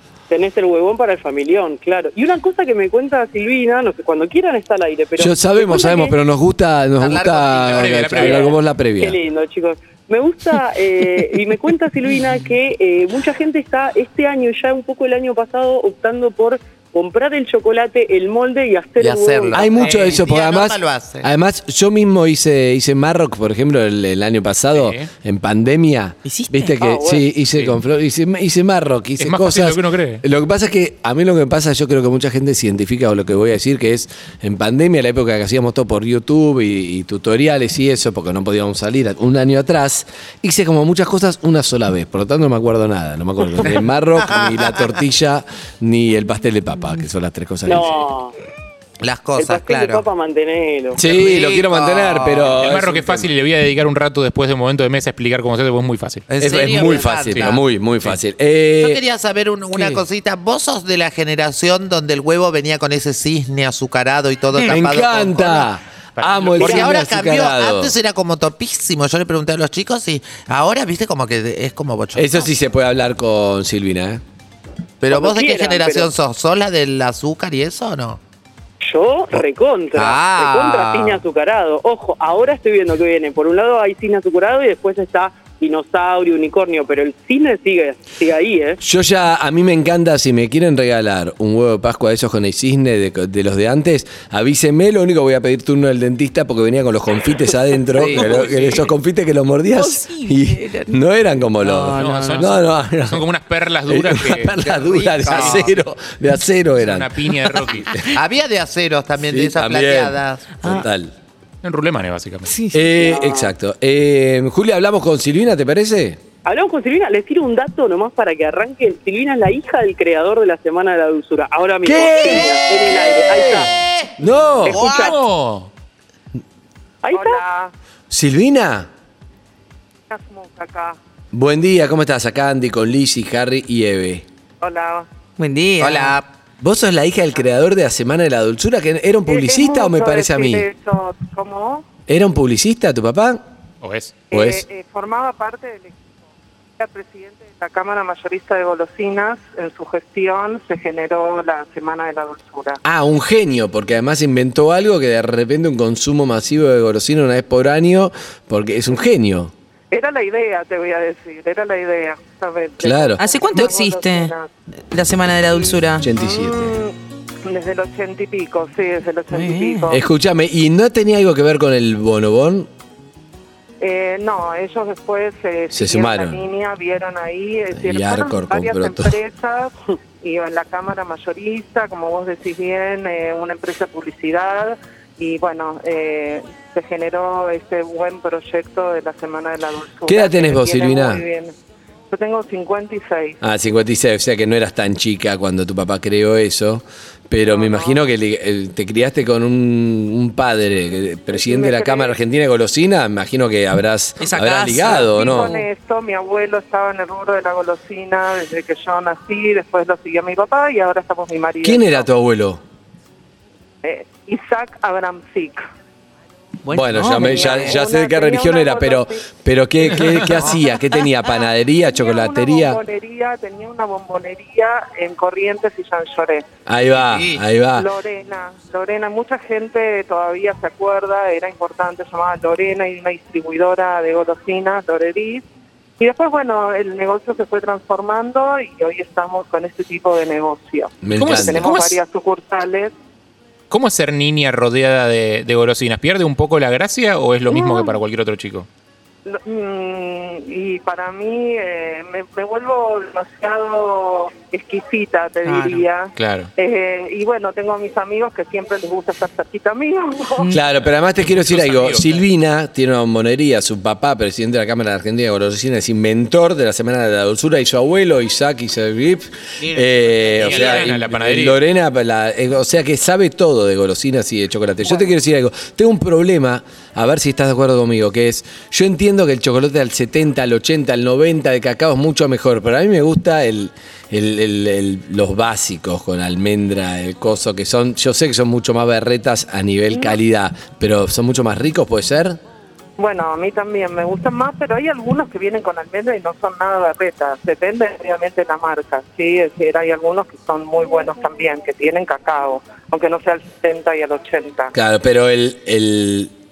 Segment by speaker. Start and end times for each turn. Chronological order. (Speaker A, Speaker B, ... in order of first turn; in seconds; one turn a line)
Speaker A: 0.3-6.2
Speaker B: 5.2-9.2
Speaker C: 7.0-8.3
Speaker D: 7.6-8.6
Speaker A: 8.1-20.1
Speaker C: 19.0-21.3
Speaker B: 19.5-48.0
Speaker D: 24.7-25.1
Speaker E: 26.2-26.7
Speaker A: 26.7-27.3
Speaker D: 29.2-30.2
Speaker A: 47.6-48.3
Speaker C: 49.0-50.0
Speaker A: 49.4-51.0
Speaker B: 50.9-53.3
Speaker C: 51.0-52.6
Speaker D: 52.6-56.2
Speaker C: 56.3-57.6
Speaker B: 56.4-59.0
Speaker D: 57.1-58.2
Speaker C: 58.8-65.7
Speaker B: 59.7-60.0
Speaker B: 64.6-67.9
Speaker D: 66.2-66.8
Speaker C: 66.6-72.5
Speaker B: 72.2-74.2
Speaker C: 75.0-78.2
Speaker A: 75.1-76.1
Speaker A: 78.8-88.8
Speaker C: 79.9-81.2
Speaker B: 88.8-103.3
Speaker C: 98.0-98.3
Speaker D: 98.0-98.9
Speaker E: 99.7-101.0
Speaker E: 101.6-102.5
Speaker D: 101.9-104.5
Speaker B: 103.9-107.1
Speaker C: 104.6-105.8
Speaker D: 105.2-105.7
Speaker D: 106.7-108.0
Speaker C: 108.1-110.7
Speaker B: 109.2-111.1
Speaker E: 110.6-110.9
Speaker D: 111.6-112.6
Speaker E: 112.5-113.2
Speaker B: 112.7-116.2
Speaker A: 116.4-123.7
Speaker B: 121.8-122.6
Speaker B: 124.2-124.9
Speaker A: 124.6-125.2
Speaker E: 124.7-125.2
Speaker D: 125.0-125.7
Speaker A: 127.0-127.4
Speaker F: 127.1-127.7
Speaker B: 128.1-128.9
Speaker F: 130.1-131.0
Speaker B: 131.3-134.2
Speaker F: 134.6-135.1
Speaker E: 135.4-136.2
Speaker C: 135.8-136.3
Speaker B: 136.6-140.7
Speaker F: 139.2-141.8
Speaker B: 142.1-143.4
Speaker D: 143.8-144.2
Speaker F: 144.3-146.1
Speaker B: 144.3-144.6
Speaker F: 146.8-152.8
Speaker B: 152.8-159.5
Speaker F: 159.9-164.5
Speaker B: 162.8-163.2
Speaker E: 163.2-164.3
Speaker E: 164.9-166.1
Speaker B: 166.0-166.8
Speaker F: 166.2-166.9
Speaker F: 167.4-170.0
Speaker E: 169.3-169.9
Speaker B: 169.9-172.7
Speaker F: 173.8-191.5
Speaker B: 175.7-176.4
Speaker B: 177.7-179.2
Speaker B: 190.1-191.2
Speaker F: 192.1-193.4
Speaker B: 193.4-205.5
Speaker F: 197.4-198.0
Speaker F: 201.3-202.2
Speaker E: 204.2-205.7
Speaker F: 204.9-212.1
Speaker B: 211.6-212.6
Speaker F: 213.8-215.7
Speaker E: 216.6-217.7
Speaker B: 216.7-222.8
Speaker F: 217.0-219.2
Speaker F: 221.8-226.4
Speaker B: 226.7-227.9
Speaker C: 227.1-227.4
Speaker F: 227.7-235.4
Speaker F: 236.0-242.9
Speaker B: 241.0-241.7
Speaker D: 241.2-242.0
Speaker D: 243.7-248.7
Speaker F: 247.5-248.0
Speaker F: 249.2-260.5
Speaker E: 255.4-255.9
Speaker D: 256.1-256.5
Speaker E: 260.4-260.6
Speaker B: 260.5-292.4
Speaker D: 261.2-262.2
Speaker E: 269.7-270.7
Speaker D: 270.3-271.6
Speaker F: 289.9-290.2
Speaker F: 293.0-304.7
Speaker B: 304.7-306.3